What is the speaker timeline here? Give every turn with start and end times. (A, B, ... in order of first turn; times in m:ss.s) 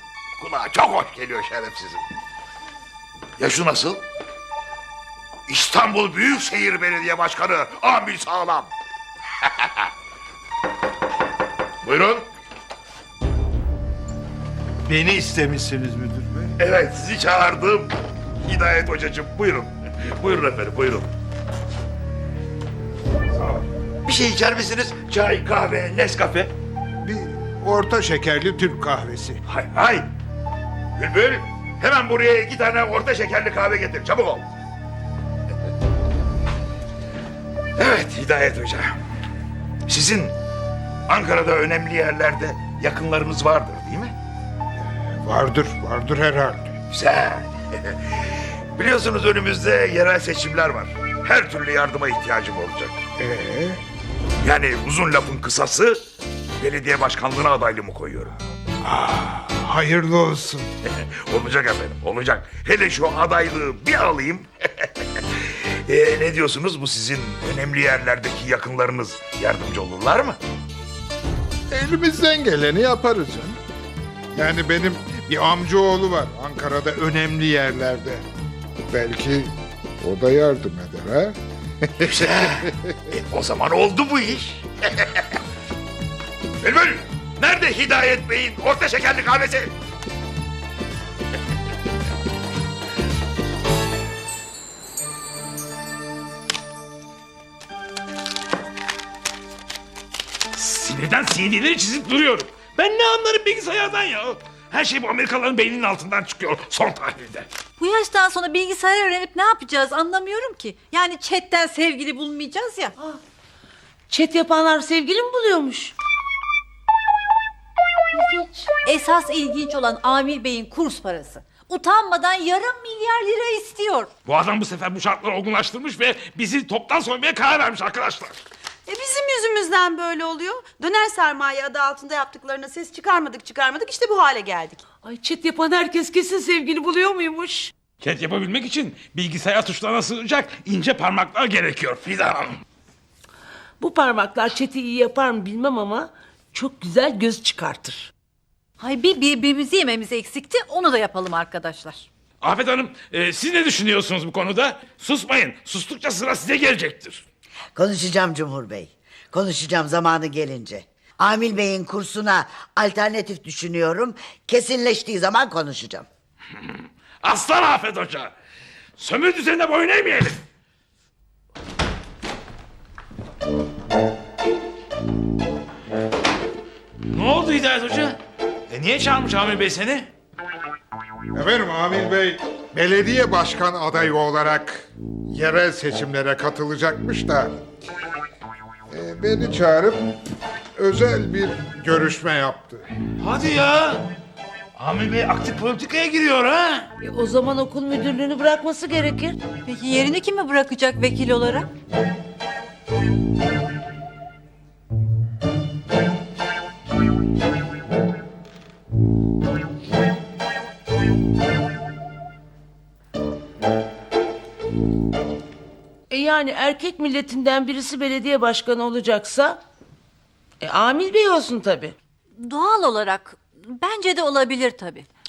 0:00.4-0:02.0 A
0:03.4-0:04.0 A
0:05.5-0:08.7 A
0:09.5-0:09.9 A
0:11.8-0:12.2 A
0:14.9-0:16.5 B
0:16.6-0:21.1 A
0:24.0-0:26.5 A
0:27.0-0:29.4 B
0:29.5-0:30.1 A
0:31.0-0:34.5 A
0:37.8-0:39.0 A
0:39.9-0:40.4 A
0:41.1-0:44.2 A
0:45.0-0:46.8 B
0:46.9-0:53.0 A
0:53.2-0:53.8 B
0:54.4-0:56.0 A
0:56.6-0:58.3 A
0:58.8-1:00.7 B
1:00.8-1:10.4 A
1:11.7-1:13.6 B
1:14.4-1:18.2 B
1:18.9-1:23.0 B
1:22.0-1:25.3 A
1:26.6-1:29.7 A
1:40.5-1:47.5 C
1:47.8-1:53.0 D
1:54.1-1:55.9 E
1:58.2-1:58.7 E
1:58.7-2:04.1 D
2:04.3-2:08.4 C
2:08.9-2:14.8 F
2:15.0-2:17.7 E
2:18.0-2:22.6 C
2:23.8-2:28.1 E
2:28.8-2:32.1 D
2:32.4-2:37.2 C
2:37.8-2:46.1 G
2:47.2-2:48.3 C
2:49.0-2:50.4 C
2:57.1-3:00.1 C
3:01.3-3:07.6 B
3:08.9-3:10.1 B
3:10.8-3:12.9 B
3:13.2-3:14.1 C
3:14.8-3:16.9 A
3:17.0-3:19.4 E
3:19.6-3:21.7 D
3:36.1-3:39.6 E
3:40.6-3:42.0 E
3:42.4-3:45.1 D